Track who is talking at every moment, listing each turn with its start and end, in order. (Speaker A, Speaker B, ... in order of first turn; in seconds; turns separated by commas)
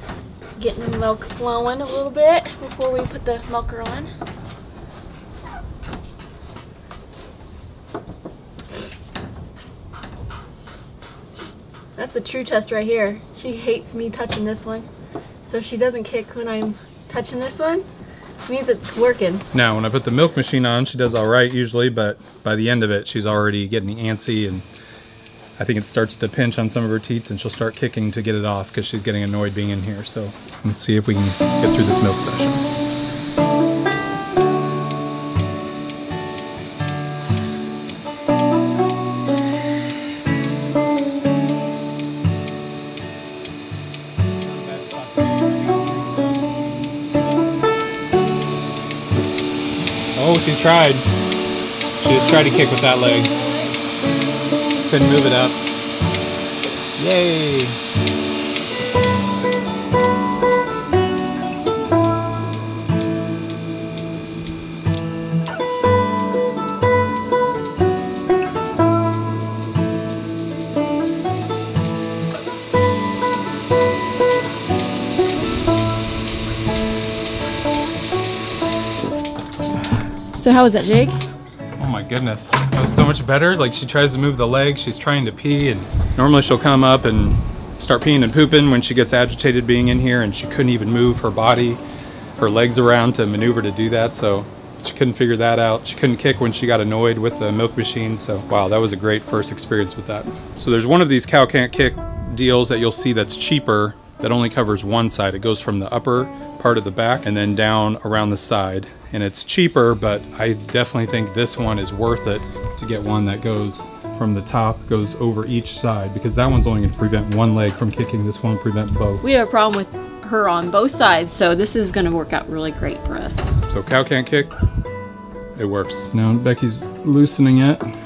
Speaker A: 0.6-4.1, Speaker A: 12.0-14.9, Speaker A: 15.4-17.9, Speaker A: 18.4-19.4, Speaker B: 19.5-24.7, Speaker B: 25.6-32.6, Speaker B: 44.4-47.8, Speaker B: 50.1-51.0, Speaker B: 52.0-53.3, Speaker B: 54.8-55.6, Speaker B: 57.0-57.8, Speaker A: 80.3-81.2, Speaker B: 81.8-91.8, Speaker B: 92.4-119.2, Speaker A: 119.2-123.5, Speaker B: 123.7-124.5, Speaker B: 125.5-127.9